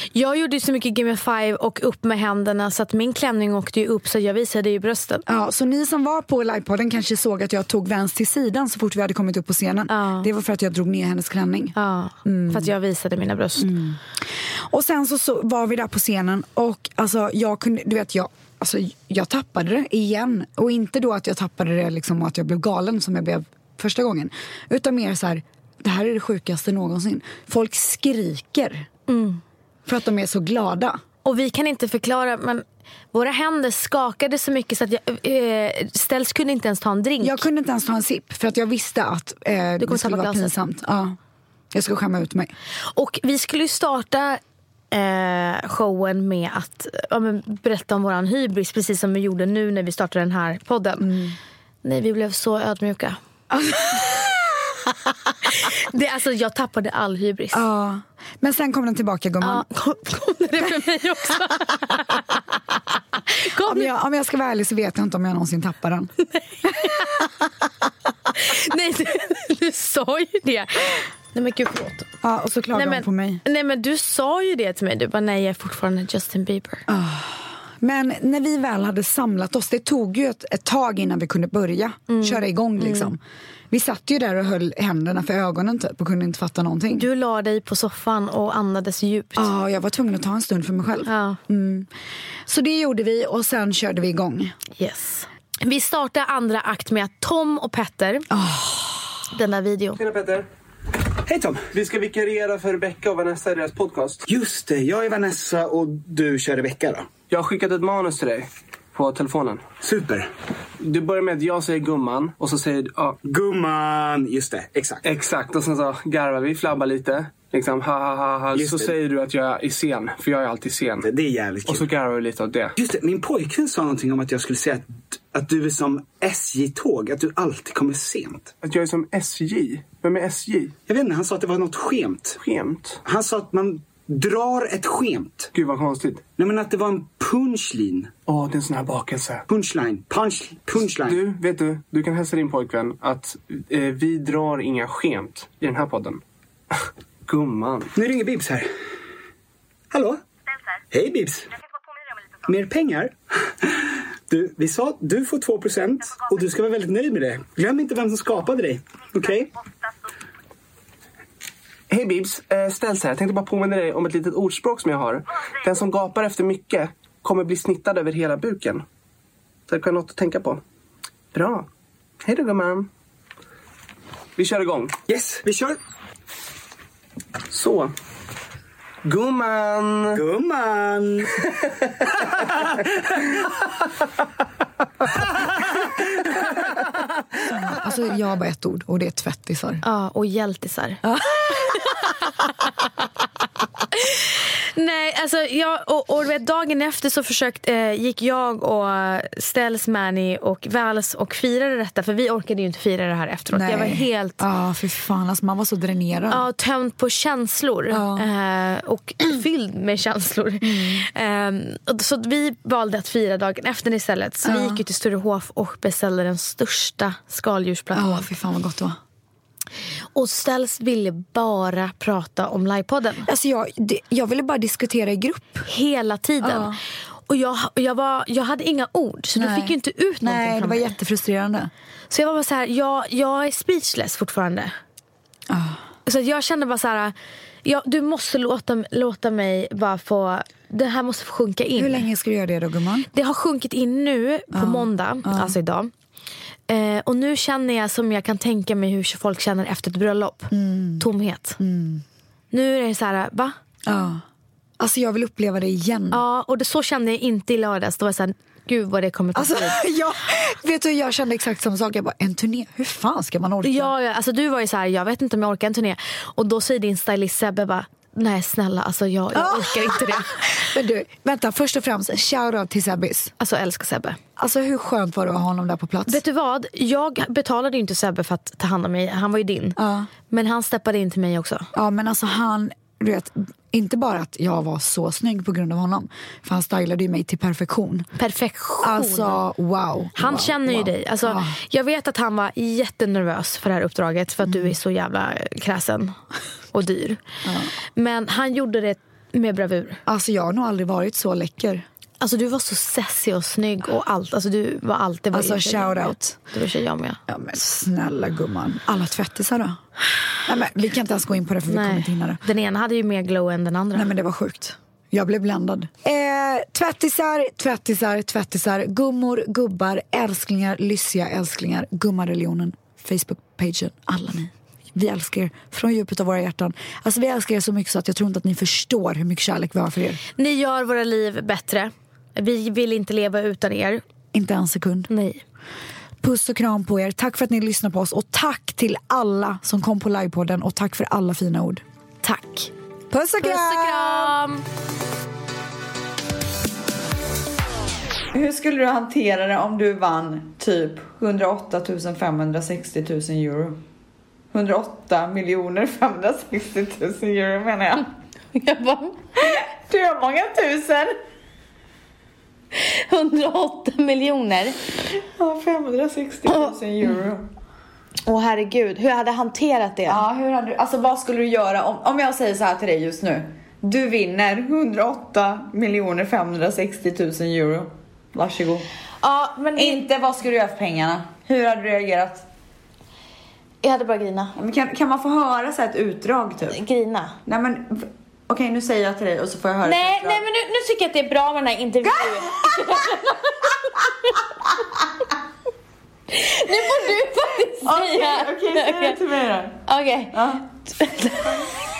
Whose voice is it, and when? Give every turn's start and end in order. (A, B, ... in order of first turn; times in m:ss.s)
0:00.1-0:05.2 A
0:05.3-0:12.7 B
0:09.9-0:10.3 A
0:11.8-0:13.7 A
0:13.6-0:28.9 B
0:29.1-0:29.4 A
0:29.9-0:31.0 B
0:31.2-0:37.4 A
0:37.2-0:41.2 B
0:39.8-0:40.5 A
0:41.7-0:42.5 B
0:42.9-0:44.4 A
0:44.9-0:51.1 A
0:51.0-0:51.4 B
0:51.8-0:54.4 A
0:55.4-0:57.7 A
0:57.5-0:59.7 B
0:59.4-1:02.2 A
1:03.3-1:03.9 A
1:03.6-1:06.1 B
1:06.6-1:07.2 A
1:08.4-1:12.1 A
1:12.2-1:13.4 B
1:12.7-1:16.8 A
1:16.9-1:23.2 B
1:22.1-1:23.1 A
1:23.7-1:27.1 B
1:26.9-1:29.5 A
1:29.4-1:31.9 B
1:31.1-1:31.4 A
1:32.5-1:34.5 B
1:34.8-1:38.2 A
1:38.3-1:39.1 B
1:39.3-1:40.0 A
1:40.0-1:40.4 C
1:41.3-1:41.6 D
1:41.7-1:44.2 C
1:44.3-1:47.1 D
1:47.3-1:49.7 C
1:49.8-1:50.3 D
1:50.8-1:53.2 C
1:53.2-1:55.0 D
1:55.0-2:01.0 C
1:58.5-1:58.9 D
2:01.0-2:01.9 D
2:01.7-2:02.8 C
2:02.8-2:08.5 D
2:08.6-2:10.8 C
2:10.9-2:12.4 D
2:12.4-2:13.0 C
2:13.0-2:15.5 D
2:15.5-2:16.2 C
2:16.4-2:18.1 D
2:18.3-2:19.4 C
2:19.5-2:21.2 D
2:20.8-2:26.2 C
2:27.3-2:27.9 C
2:27.9-2:28.7 D
2:29.9-2:30.2 D
2:30.9-2:31.5 D
2:32.5-2:33.2 D
2:34.3-2:39.5 D
2:41.9-2:48.8 C
2:49.7-2:50.6 C
2:51.3-2:51.7 C
2:52.2-2:52.9 C
2:54.4-2:55.0 C
2:55.1-2:55.8 D
2:57.5-2:57.9 C
2:59.1-3:00.2 C
3:00.1-3:01.3 D
3:07.4-3:09.8 B
3:09.8-3:11.0 A
3:11.0-3:11.9 B
3:11.6-3:12.0 A
3:14.0-3:24.4 A
3:23.5-3:26.4 B
3:26.3-3:38.3 A
3:27.9-3:28.2 B
3:30.6-3:31.0 B
3:34.4-3:34.8 B
3:37.9-3:39.0 B
3:40.2-3:43.3 A
3:43.2-3:45.7 B
3:45.7-3:46.8 A
3:46.4-3:46.8 B
3:47.3-3:51.0 A
3:49.4-3:51.7 B
3:52.1-3:54.7 A
3:55.5-3:55.8 B
3:56.1-4:02.1 A
4:01.8-4:03.1 B
4:03.1-4:05.9 A
4:04.5-4:05.6 B
4:06.7-4:11.6 A
4:10.5-4:11.1 B
4:11.6-4:12.0 B
4:12.5-4:13.6 A
4:13.8-4:14.2 B
4:14.8-4:16.2 B
4:16.1-4:19.8 A
4:19.3-4:23.9 B
4:23.6-4:30.6 A
4:29.3-4:33.3 B
4:33.4-4:34.2 A
4:34.4-4:36.2 B
4:36.1-4:39.8 A
4:39.8-4:40.1 B
4:40.3-4:41.7 A
4:41.7-4:48.1 B
4:48.2-4:49.4 A
4:48.8-4:51.6 B
4:50.2-4:56.2 A
4:54.4-4:54.8 B
4:56.7-4:57.2 A
4:57.4-4:57.7 B
4:58.0-5:00.0 A
5:00.1-5:01.8 B
5:02.2-5:07.2 A
5:05.3-5:06.4 B
5:07.3-5:09.8 B
5:10.4-5:12.4 B
5:11.7-5:14.1 A
5:13.9-5:30.2 B
5:30.4-5:34.0 A
5:34.3-5:35.1 B
5:35.1-5:35.4 A
5:36.2-5:41.8 B
5:42.2-5:42.7 A
5:43.1-5:44.3 B
5:43.4-5:44.6 A
5:48.3-5:53.8 E
5:54.5-5:58.1 E
5:58.5-5:59.2 A
5:59.4-6:01.1 E
6:02.7-6:04.8 A
6:05.1-6:07.5 E
6:08.3-6:10.2 A
6:10.1-6:18.9 E
6:19.2-6:20.0 A
6:19.8-6:22.4 E
6:23.8-6:24.6 A
6:24.6-6:26.8 E
6:26.7-6:27.4 A
6:27.4-6:30.4 E
6:29.8-6:34.4 A
6:32.0-6:33.0 E
6:36.3-6:39.2 A
6:37.8-6:39.8 E
6:39.8-6:41.7 A
6:40.3-6:40.6 E